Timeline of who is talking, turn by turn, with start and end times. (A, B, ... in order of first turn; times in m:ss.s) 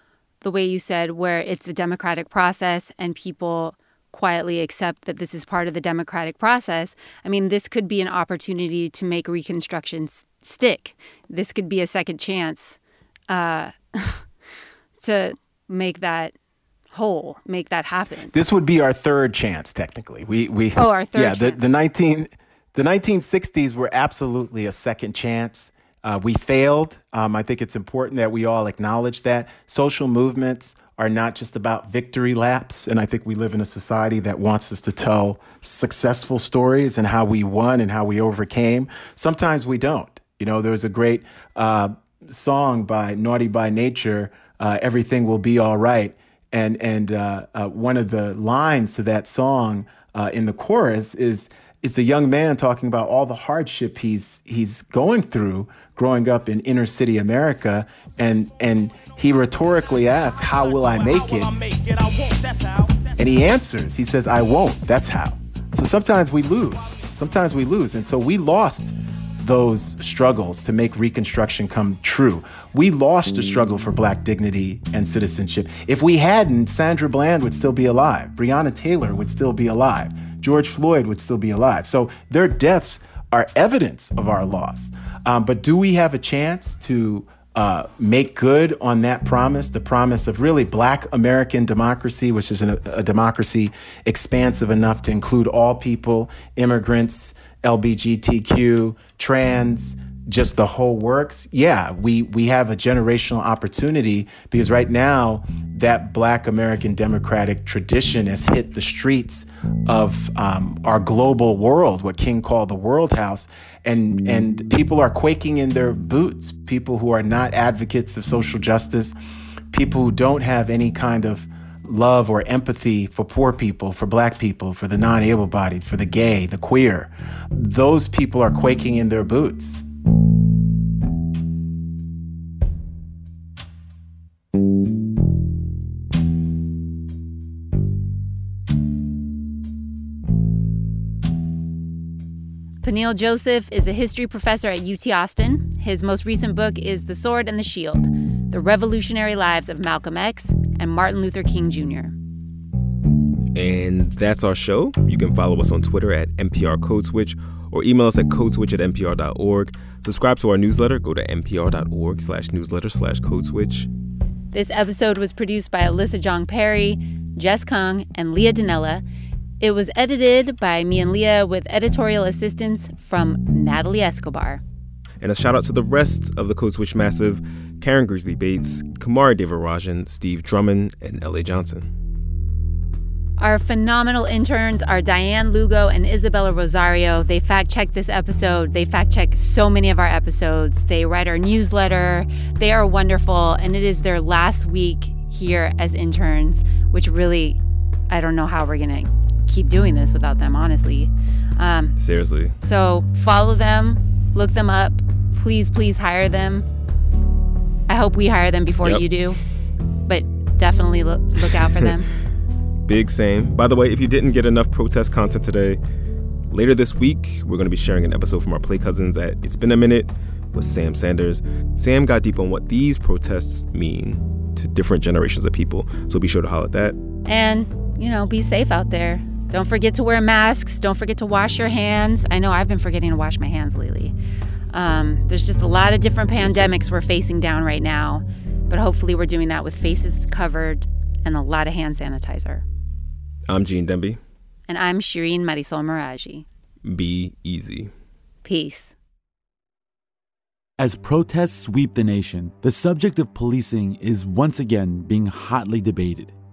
0:00.4-0:12.8 A
0:13.3-0:14.2 A
0:15.0-0:16.3 A
0:16.9-0:18.3 A
0:18.3-1:01.6 B
0:20.8-0:21.6 A
1:03.2-1:59.2 B
1:59.7-2:09.8 B
2:22.8-2:32.1 A
2:33.6-2:43.9 C
2:44.5-2:49.0 A
2:49.6-2:54.6 A
2:55.2-3:01.9 C
3:03.4-3:22.0 A
3:22.0-3:22.6 C
3:22.6-3:26.7 A
3:27.9-3:29.4 A
3:30.1-3:32.1 A
3:32.9-3:35.8 C
3:36.5-3:47.0 C
3:47.3-3:54.1 A
3:54.7-4:02.6 A
3:56.4-3:56.7 C
4:03.5-4:04.2 C
4:04.7-4:06.5 A
4:06.8-4:07.9 C
4:08.4-4:08.9 A
4:10.8-4:16.3 D